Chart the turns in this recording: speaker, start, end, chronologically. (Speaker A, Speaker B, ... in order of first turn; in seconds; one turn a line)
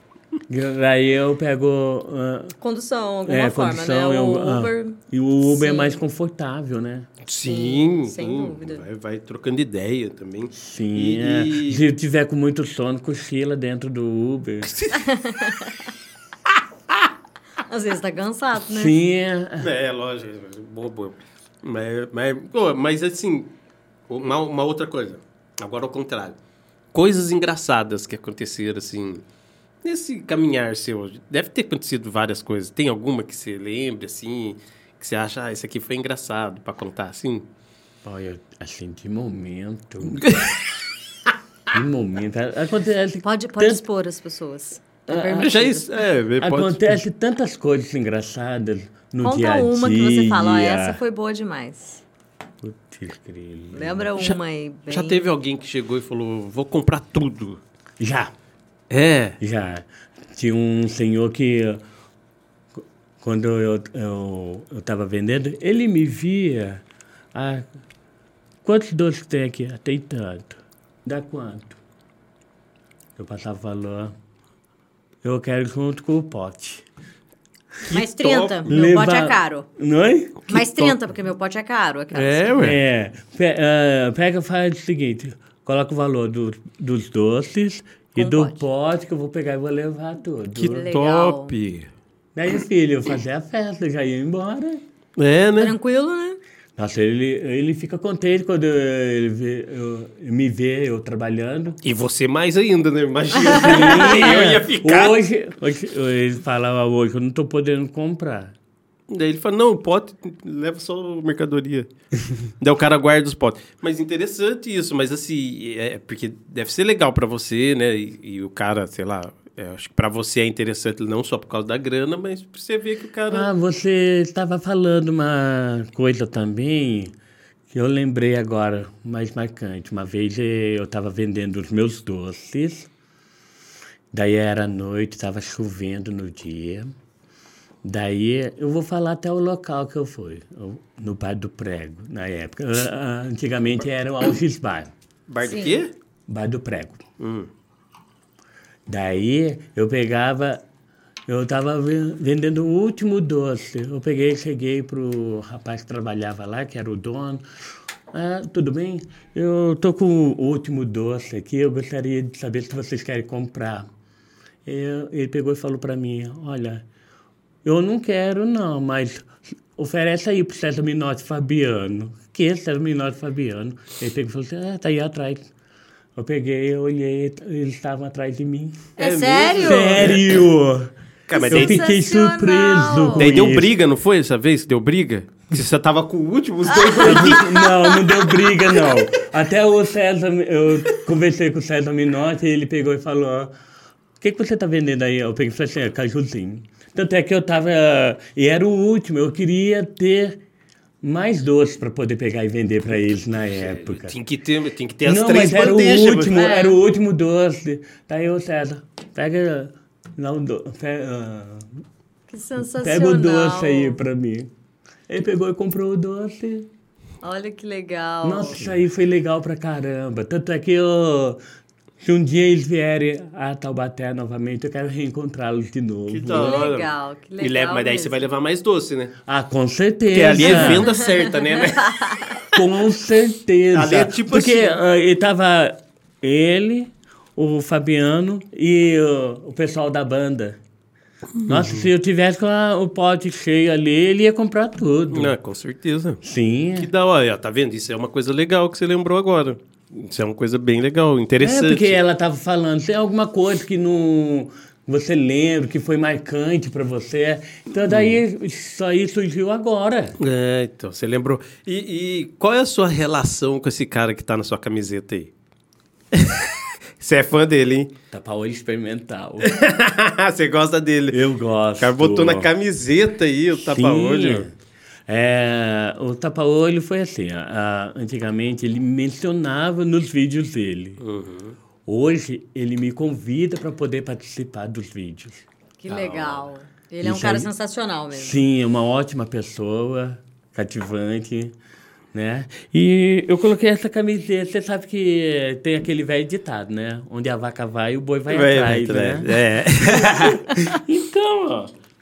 Speaker A: 0.5-2.6
Speaker B: 2.6-6.0
Speaker A: 3.3-7.1
Speaker C: 7.2-11.8
Speaker B: 7.5-8.8
Speaker A: 10.6-14.7
Speaker C: 14.6-15.1
Speaker B: 14.9-15.8
Speaker B: 17.7-18.9
Speaker A: 18.7-19.7
Speaker C: 19.6-23.5
Speaker C: 24.1-26.4
Speaker C: 26.9-29.2
Speaker C: 29.8-37.5
Speaker A: 38.0-40.2
Speaker C: 40.1-40.5
Speaker A: 41.7-43.8
Speaker B: 43.2-45.9
Speaker A: 45.1-45.6
Speaker C: 45.4-47.0
Speaker A: 46.4-51.0
Speaker B: 49.2-52.0
Speaker A: 52.6-54.1
Speaker B: 53.7-55.3
Speaker C: 54.9-57.6
Speaker A: 58.0-58.3
Speaker C: 58.9-59.4
Speaker A: 59.4-61.8
Speaker A: 62.8-66.8
Speaker A: 67.3-67.7
Speaker A: 68.7-71.8
Speaker A: 73.2-74.2
Speaker A: 75.2-76.8
Speaker C: 77.8-78.8
Speaker B: 77.9-79.7
Speaker A: 78.7-81.0
Speaker B: 80.5-82.5
Speaker C: 82.1-82.8
Speaker A: 82.6-90.9
Speaker B: 88.2-88.7
Speaker B: 90.6-91.5
Speaker C: 90.6-91.9
Speaker A: 92.3-94.8
Speaker C: 95.2-95.8
Speaker B: 95.6-96.4
Speaker A: 96.8-101.8
Speaker C: 101.8-105.2
Speaker A: 103.5-108.5
Speaker B: 103.5-104.1
Speaker C: 109.1-111.9
Speaker C: 112.6-123.5
Speaker A: 123.3-127.1
Speaker A: 127.7-132.9
Speaker A: 134.1-136.9
Speaker A: 137.8-144.9
Speaker C: 145.3-145.9
Speaker B: 145.4-145.8
Speaker A: 146.3-147.0
Speaker C: 147.2-147.5
Speaker A: 148.9-150.6
Speaker A: 151.3-157.4
Speaker A: 158.1-163.9
Speaker A: 164.7-166.8
Speaker A: 167.6-175.5
Speaker A: 176.2-178.9
Speaker C: 179.0-180.3
Speaker B: 179.0-180.2
Speaker A: 179.6-183.7
Speaker C: 181.3-181.9
Speaker B: 181.3-183.3
Speaker C: 183.2-187.5
Speaker B: 186.7-188.7
Speaker A: 187.0-193.5
Speaker A: 194.2-200.4
Speaker A: 201.0-204.2
Speaker C: 203.5-206.4
Speaker A: 205.1-211.7
Speaker B: 206.3-206.8
Speaker B: 212.3-214.0
Speaker A: 212.8-214.5
Speaker A: 215.1-216.7
Speaker B: 217.2-218.7
Speaker A: 218.2-221.4
Speaker A: 222.0-226.6
Speaker C: 226.1-229.1
Speaker B: 226.3-228.2
Speaker A: 229.3-230.9
Speaker C: 230.1-232.5
Speaker B: 230.4-232.3
Speaker A: 232.5-240.6
Speaker C: 233.7-234.8
Speaker C: 241.4-241.9
Speaker A: 241.5-245.3
Speaker C: 245.1-246.2
Speaker A: 246.2-246.9
Speaker C: 246.8-252.0
Speaker A: 251.4-260.2
Speaker C: 257.9-258.2
Speaker C: 260.2-265.3
Speaker C: 266.1-267.9
Speaker A: 268.1-269.5
Speaker C: 269.4-271.2
Speaker A: 271.1-272.5
Speaker C: 271.8-274.5
Speaker A: 273.6-274.5
Speaker A: 275.1-281.0
Speaker C: 281.0-281.6
Speaker A: 281.9-285.4
Speaker B: 285.8-288.4
Speaker C: 285.9-286.5
Speaker A: 287.0-287.5
Speaker A: 288.1-291.6
Speaker A: 292.1-301.7
Speaker C: 298.3-300.6